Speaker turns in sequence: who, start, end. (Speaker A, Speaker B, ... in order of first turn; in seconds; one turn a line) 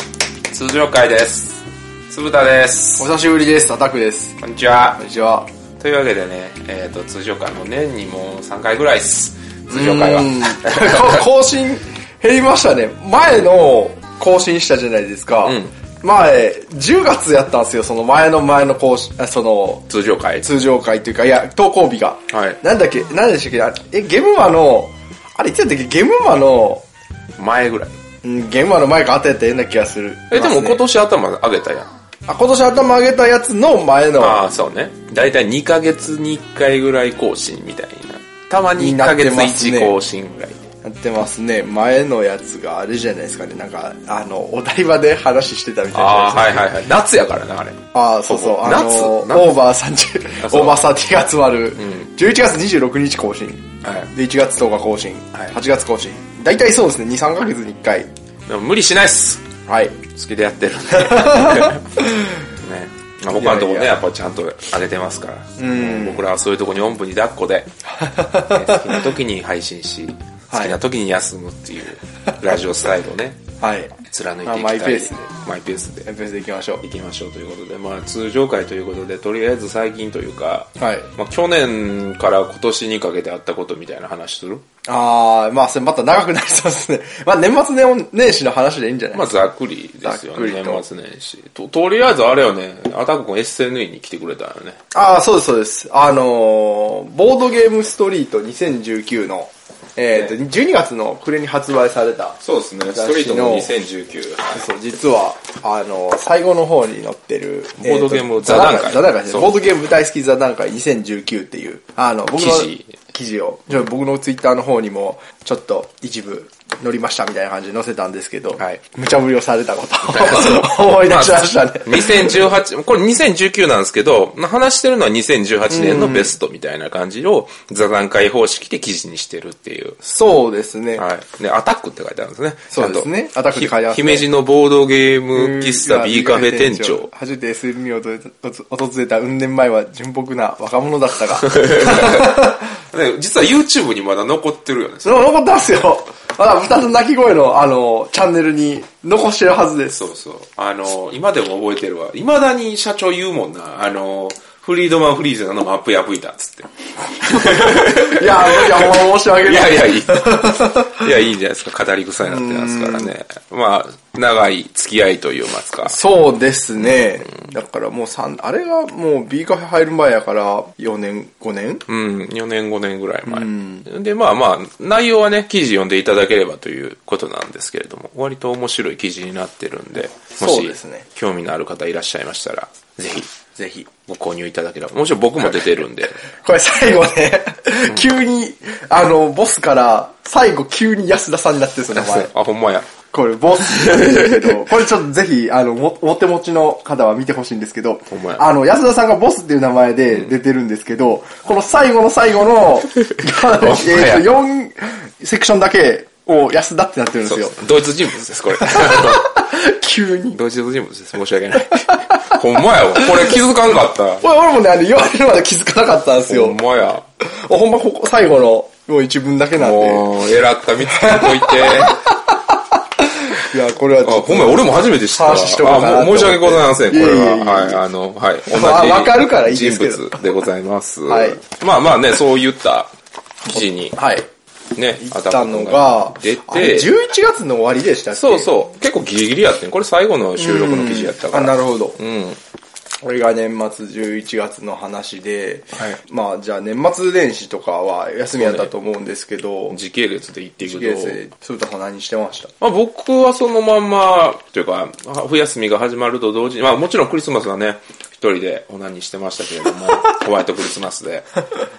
Speaker A: 0.5-3.1
Speaker B: 3.0-4.4
Speaker A: 4.4-5.0
Speaker B: 5.0-5.5
Speaker A: 5.8-11.2
Speaker B: 9.7-19.9
Speaker A: 15.4-15.7
Speaker A: 19.9-20.5
Speaker B: 20.4-26.8
Speaker A: 22.3-22.6
Speaker A: 27.4-27.9
Speaker B: 28.2-30.8
Speaker A: 30.3-31.9
Speaker B: 32.3-34.4
Speaker A: 34.2-40.7
Speaker B: 38.8-40.0
Speaker B: 40.8-46.7
Speaker A: 45.9-49.5
Speaker B: 47.9-58.1
Speaker A: 50.4-50.8
Speaker A: 51.8-52.1
Speaker A: 53.8-54.1
Speaker A: 58.5-59.5
Speaker B: 59.6-60.0
Speaker A: 60.1-61.9
Speaker B: 60.9-62.4
Speaker A: 62.5-67.7
Speaker B: 63.3-63.9
Speaker B: 65.6-66.2
Speaker B: 67.9-69.0
Speaker A: 68.3-73.5
Speaker B: 70.5-70.8
Speaker B: 73.6-73.9
Speaker A: 74.0-76.1
Speaker B: 74.4-75.3
Speaker B: 76.0-76.8
Speaker A: 76.8-84.6
Speaker B: 80.8-81.1
Speaker B: 84.8-89.3
Speaker A: 89.1-94.8
Speaker B: 90.0-90.8
Speaker B: 94.9-102.4
Speaker A: 102.4-104.6
Speaker B: 102.9-103.7
Speaker B: 104.5-122.5
Speaker A: 107.8-109.6
Speaker A: 112.3-113.0
Speaker A: 120.0-130.0
Speaker B: 125.7-126.3
Speaker B: 130.0-131.0
Speaker A: 130.9-137.1
Speaker B: 132.7-134.3
Speaker B: 135.3-142.6
Speaker A: 141.4-145.3
Speaker B: 145.0-150.0
Speaker A: 149.9-166.0
Speaker B: 157.2-161.1
Speaker B: 162.2-163.1
Speaker B: 165.8-171.8
Speaker A: 171.9-183.3
Speaker B: 173.3-173.9
Speaker B: 180.4-181.1
Speaker B: 183.6-183.9
Speaker A: 184.0-186.2
Speaker B: 186.3-192.3
Speaker A: 191.9-192.9
Speaker B: 193.1-207.6
Speaker A: 193.6-194.6
Speaker A: 198.1-198.4
Speaker A: 203.0-204.3
Speaker A: 207.2-209.4
Speaker B: 208.6-210.4
Speaker A: 210.3-214.2
Speaker B: 211.7-212.4
Speaker B: 212.9-213.4
Speaker B: 214.2-216.6
Speaker A: 216.3-217.0
Speaker B: 217.2-220.1
Speaker A: 219.6-222.1
Speaker B: 220.9-227.8
Speaker A: 224.0-232.9
Speaker B: 228.5-230.2
Speaker B: 231.1-231.4
Speaker B: 233.4-234.2
Speaker A: 233.5-234.0
Speaker A: 234.7-236.9
Speaker B: 235.0-238.7
Speaker A: 238.1-242.4
Speaker B: 240.4-242.0
Speaker B: 243.0-249.8
Speaker A: 248.4-248.7
Speaker A: 249.7-251.2
Speaker B: 250.6-252.5
Speaker A: 252.6-261.4